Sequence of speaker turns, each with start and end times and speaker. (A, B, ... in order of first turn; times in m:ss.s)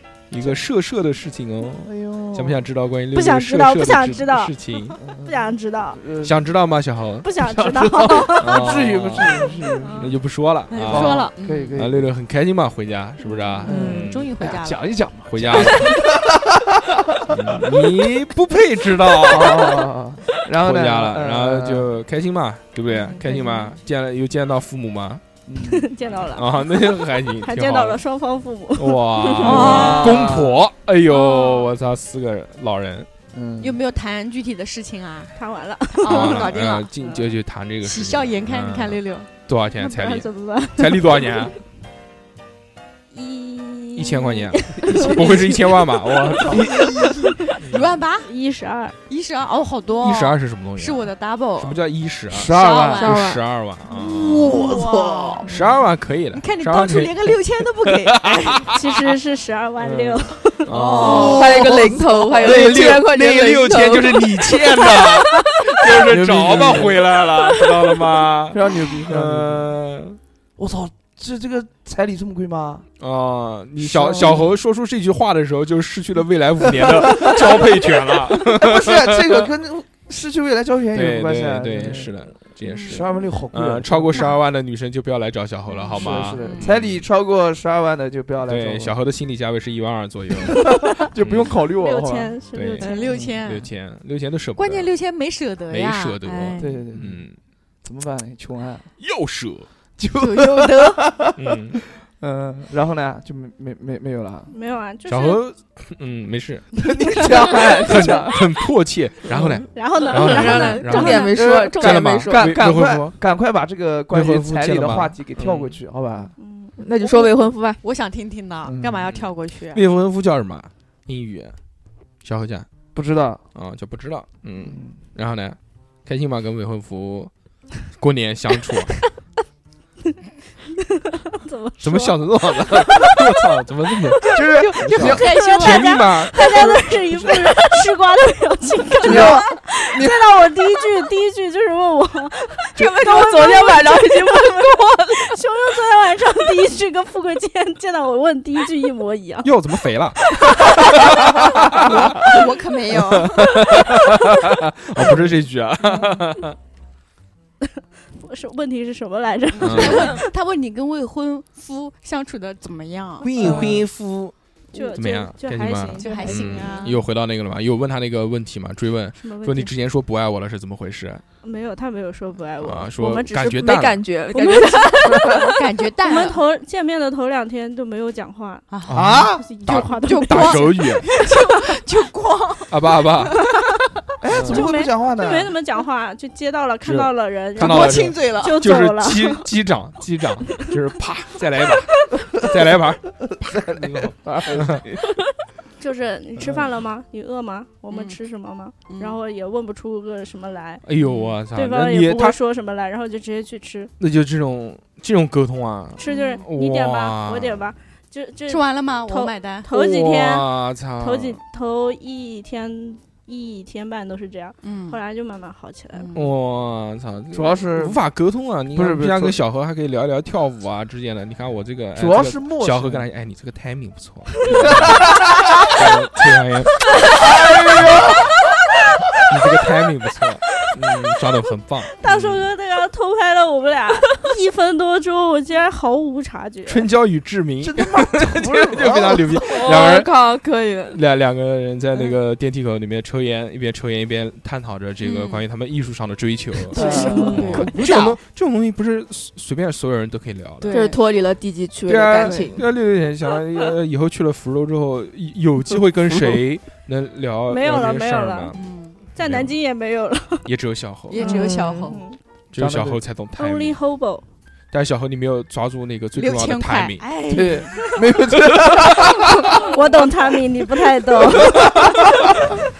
0:00.3-0:05.0 A
0:01.8-0:02.6 B
0:03.1-0:06.0 C
0:05.0-0:06.4 B
0:06.2-0:07.3 A
0:07.2-0:10.1 C
0:07.4-0:10.1 B
0:08.4-0:14.3 A
0:10.7-0:11.8 D
0:10.8-0:12.1 B
0:13.2-0:14.8 D
0:13.6-0:17.8 B
0:15.3-0:15.9 A
0:17.3-0:19.8 A
0:19.2-0:21.9 B
0:20.6-0:25.2 A
0:22.9-0:23.8 D
0:25.5-0:25.8 B
0:25.6-0:29.7 C
0:26.2-0:28.0 A
0:28.8-0:33.1 A
0:29.4-0:30.6 B
0:29.4-0:30.2 D
0:31.1-0:31.6 C
0:33.3-0:33.8 B
0:33.6-0:35.3 D
0:35.4-0:37.2 C
0:35.9-0:36.9 D
0:36.0-0:41.5 A
0:37.8-0:39.3 D
0:39.8-0:41.5 C
0:43.1-0:47.6 C
0:43.9-0:46.9 A
0:44.8-0:45.4 B
0:46.4-0:46.8 B
0:46.6-0:48.3 D
0:47.6-0:48.0 A
0:48.2-0:49.0 C
0:49.1-0:51.8 D
0:50.0-0:54.6 A
0:52.3-0:53.2 B
0:52.5-0:53.3 D
0:53.0-0:53.4 E
0:54.0-0:55.7 B
0:54.4-0:55.5 D
0:55.4-0:59.1 A
0:56.3-0:58.6 D
0:58.7-1:00.7 C
0:59.8-1:10.2 A
1:00.7-1:02.3 D
1:01.0-1:05.0 E
1:01.0-1:01.9 B
1:06.0-1:07.0 B
1:08.5-1:09.7 B
1:10.6-1:12.8 B
1:13.0-1:19.5 A
1:13.8-1:14.5 B
1:16.6-1:22.1 B
1:20.9-1:27.1 A
1:22.6-1:23.0 D
1:22.8-1:24.3 B
1:25.7-1:26.7 D
1:25.9-1:28.9 B
1:28.4-1:31.5 A
1:30.4-1:32.3 B
1:31.8-1:33.2 C
1:32.5-1:34.9 A
1:32.8-1:33.7 D
1:33.0-1:33.4 B
1:34.6-1:36.9 D
1:35.7-1:37.4 A
1:36.6-1:37.2 B
1:37.8-1:38.9 B
1:39.0-1:39.7 A
1:40.0-1:44.5 B
1:40.2-1:41.1 D
1:41.4-1:41.8 A
1:44.5-1:45.4 C
1:45.1-1:46.6 A
1:46.7-1:48.5 B
1:47.8-1:53.2 A
1:49.3-1:49.6 B
1:49.7-1:51.4 C
1:50.1-1:52.4 E
1:51.3-1:56.3 B
1:54.1-1:55.8 A
1:56.4-1:56.7 C
1:56.8-1:57.8 E
1:57.0-1:59.8 D
1:58.6-1:59.1 B
1:59.1-2:01.5 A
2:02.2-2:02.7 A
2:02.9-2:03.4 B
2:03.5-2:07.3 A
2:04.6-2:05.0 B
2:07.9-2:08.9 A
2:10.8-2:13.3 C
2:11.8-2:16.4 A
2:14.3-2:15.2 B
2:14.4-2:16.8 D
2:15.2-2:29.5 C
2:19.0-2:20.2 B
2:22.8-2:25.3 E
2:29.4-2:30.2 A
2:30.2-2:31.5 C
2:30.8-2:32.4 A
2:31.4-2:33.6 D
2:32.9-2:36.6 A
2:35.0-2:35.2 B
2:38.2-2:40.2 C
2:39.6-2:40.1 A
2:39.7-2:43.7 D
2:43.2-2:51.2 A
2:43.4-2:43.8 B
2:44.7-2:46.9 C
2:45.8-2:47.0 D
2:49.2-2:49.7 C
2:51.4-2:53.7 C
2:52.6-2:54.0 A
2:53.6-2:55.5 E
2:54.3-2:55.5 C
2:55.1-2:56.4 D
2:56.0-2:58.6 C
2:58.7-3:02.7 D
2:58.8-3:01.0 A
2:58.9-2:59.4 B
2:59.4-3:01.6 C
3:02.7-3:03.4 A
3:04.2-3:05.5 B
3:04.3-3:04.6 A
3:04.4-3:09.4 C
3:06.8-3:14.8 A
3:07.6-3:08.7 D
3:13.4-3:15.0 B
3:15.8-3:20.8 C
3:16.4-3:16.7 B
3:17.9-3:18.2 D
3:18.9-3:19.2 D
3:20.8-3:22.4 A
3:21.0-3:21.4 D
3:21.5-3:23.9 C
3:24.0-3:27.7 A
3:26.0-3:30.5 C
3:26.1-3:26.4 D
3:28.5-3:29.7 D
3:29.7-3:31.4 A
3:31.0-3:36.1 C
3:34.6-3:35.0 D
3:35.9-3:36.3 D
3:36.1-3:46.8 A
3:37.3-3:38.0 B
3:38.7-3:39.4 B
3:42.0-3:43.0 B
3:44.5-3:45.7 B
3:47.0-3:48.5 B
3:47.7-3:48.0 A
3:49.3-3:52.5 A
3:52.0-3:56.9 C
3:56.6-4:00.1 A
3:57.6-3:59.7 B
3:59.4-4:01.0 E
4:00.9-4:10.7 A
4:05.0-4:05.4 D
4:06.7-4:08.1 D
4:06.8-4:07.4 B
4:06.8-4:07.8 E
4:07.0-4:07.7 C
4:10.6-4:11.0 D
4:10.7-4:12.7 E
4:11.9-4:18.6 A
4:12.2-4:12.6 D
4:16.0-4:16.4 B
4:17.5-4:18.6 C
4:18.5-4:19.0 D
4:19.1-4:20.5 C
4:19.2-4:19.5 A
4:20.4-4:21.2 A
4:21.1-4:22.0 D
4:21.2-4:21.8 B
4:21.3-4:21.6 E
4:21.9-4:22.2 C
4:22.5-4:23.8 A
4:22.5-4:23.0 B
4:23.4-4:24.2 C
4:24.7-4:27.0 A
4:26.1-4:27.8 D
4:27.3-4:29.7 B
4:29.4-4:32.0 C
4:31.2-4:32.1 A
4:31.2-4:32.5 B